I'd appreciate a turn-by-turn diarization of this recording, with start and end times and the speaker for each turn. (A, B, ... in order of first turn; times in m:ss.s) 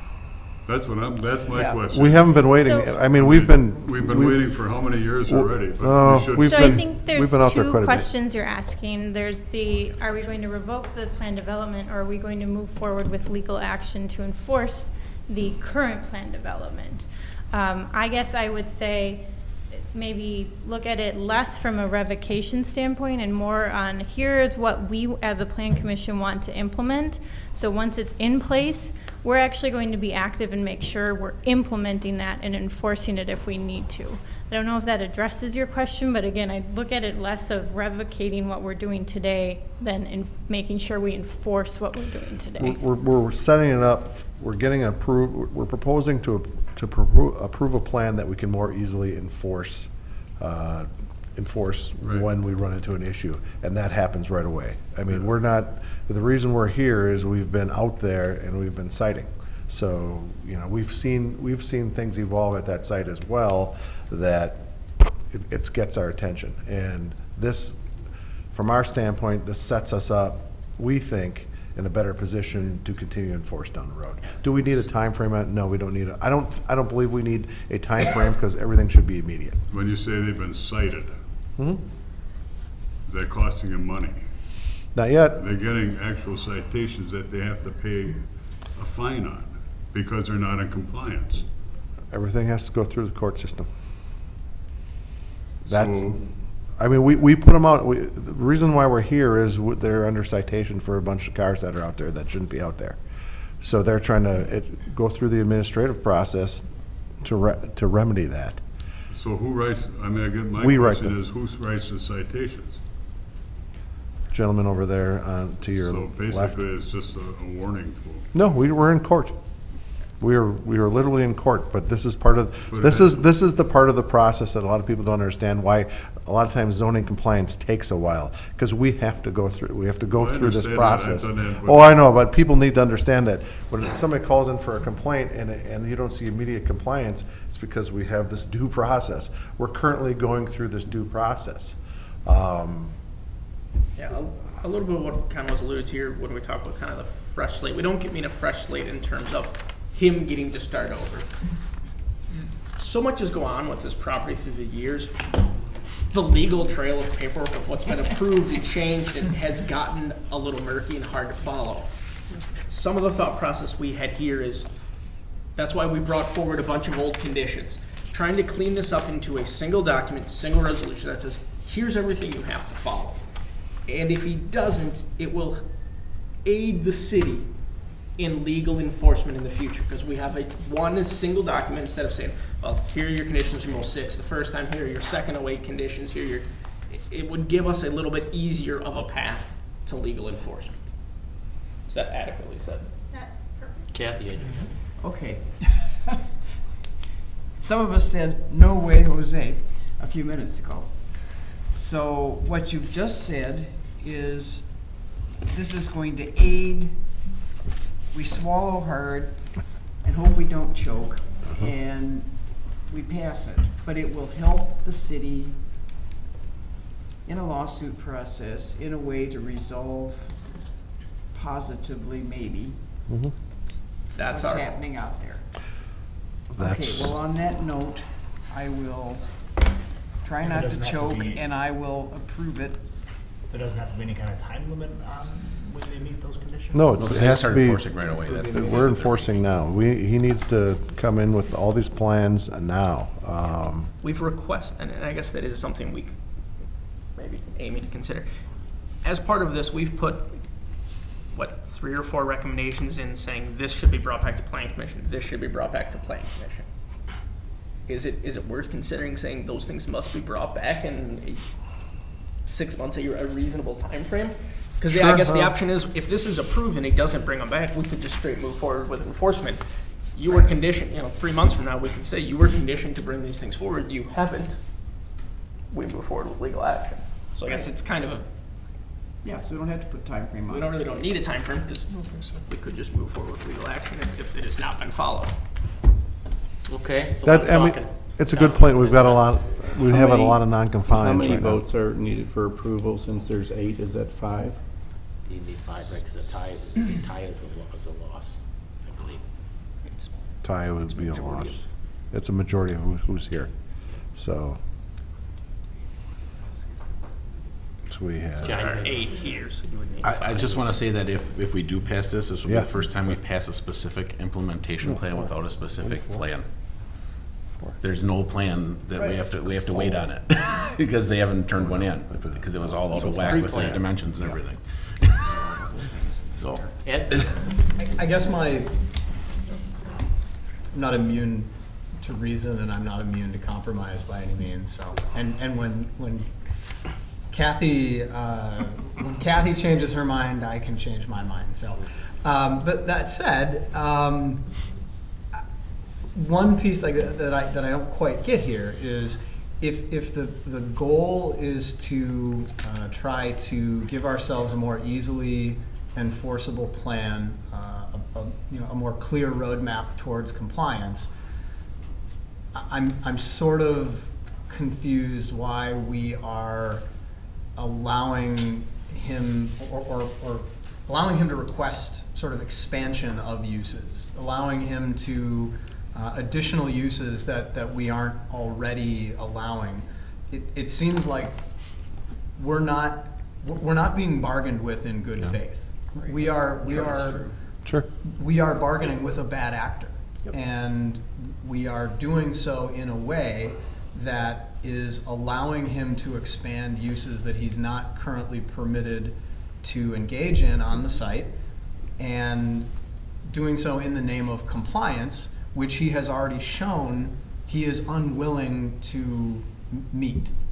0:00.6-0:07.0 A
0:01.5-0:01.8 B
0:01.9-0:04.5 C
0:02.5-0:03.0 D
0:05.3-0:08.1 C
0:06.3-0:42.8 D
0:42.6-1:07.9 C
0:52.0-0:52.3 A
1:08.5-1:19.6 C
1:19.7-1:21.2 A
1:23.1-1:24.2 A
1:25.0-1:25.4 C
1:25.4-1:31.5 A
1:32.1-1:33.7 C
1:35.7-1:36.3 A
1:35.7-1:36.2 C
1:36.8-1:43.0 C
1:43.6-1:46.7 C
1:47.2-1:48.6 C
1:49.1-1:52.8 A
1:50.6-1:51.2 C
1:54.3-1:56.6 C
1:55.7-1:58.3 A
1:58.3-1:59.4 C
2:00.2-2:23.0 C
2:02.7-2:03.3 A
2:10.1-2:12.2 A
2:24.0-2:31.5 E
2:32.7-2:35.4 E
2:36.0-2:41.9 E
2:42.6-2:44.7 E
2:45.6-3:11.2 E
3:11.9-3:13.0 E
3:13.1-3:14.1 D
3:13.9-3:14.8 F
3:15.0-3:16.1 B
3:17.6-3:27.3 B
3:28.1-3:35.6 B
3:37.2-3:40.5 B
3:41.3-3:43.0 B
3:43.1-3:43.3 C
3:44.1-3:44.8 E
3:44.2-3:45.5 B
3:46.5-3:49.6 B
3:46.6-3:47.2 C
3:50.2-3:52.9 B
3:50.4-3:51.4 G
3:53.5-3:57.0 G
3:56.7-4:03.9 C
3:57.0-3:59.5 H
4:04.0-4:06.2 E
4:07.1-4:08.3 E
4:09.0-4:10.8 E
4:11.3-4:16.7 E
4:17.9-4:21.6 E
4:22.4-4:35.0 E
4:24.9-4:25.5 C
4:35.7-4:38.3 E
4:39.2-4:40.8 B
4:40.5-4:45.4 E
4:46.7-4:49.9 F
4:47.2-4:51.6 C
4:49.9-4:54.6 I
4:55.2-4:59.2 F
4:59.9-5:00.1 E
5:00.4-5:04.6 C
5:00.9-5:01.7 E
5:07.9-5:08.6 C
5:08.4-5:09.3 F
5:08.4-5:10.7 E
5:10.0-5:16.5 H
5:15.9-5:16.2 C
5:17.8-5:25.4 H
5:21.6-5:23.8 C
5:23.1-5:23.7 F
5:25.3-5:27.0 B
5:26.3-5:27.4 H
5:26.8-5:27.1 F
5:27.8-5:28.8 J
5:30.7-5:36.3 J
5:37.3-5:44.6 J
5:46.1-6:01.1 J
6:02.5-6:06.8 J
6:07.6-6:21.4 J
6:22.4-6:27.3 J
6:26.0-6:27.4 B
6:28.0-6:41.4 J
6:42.0-6:42.7 J
6:43.3-6:50.3 J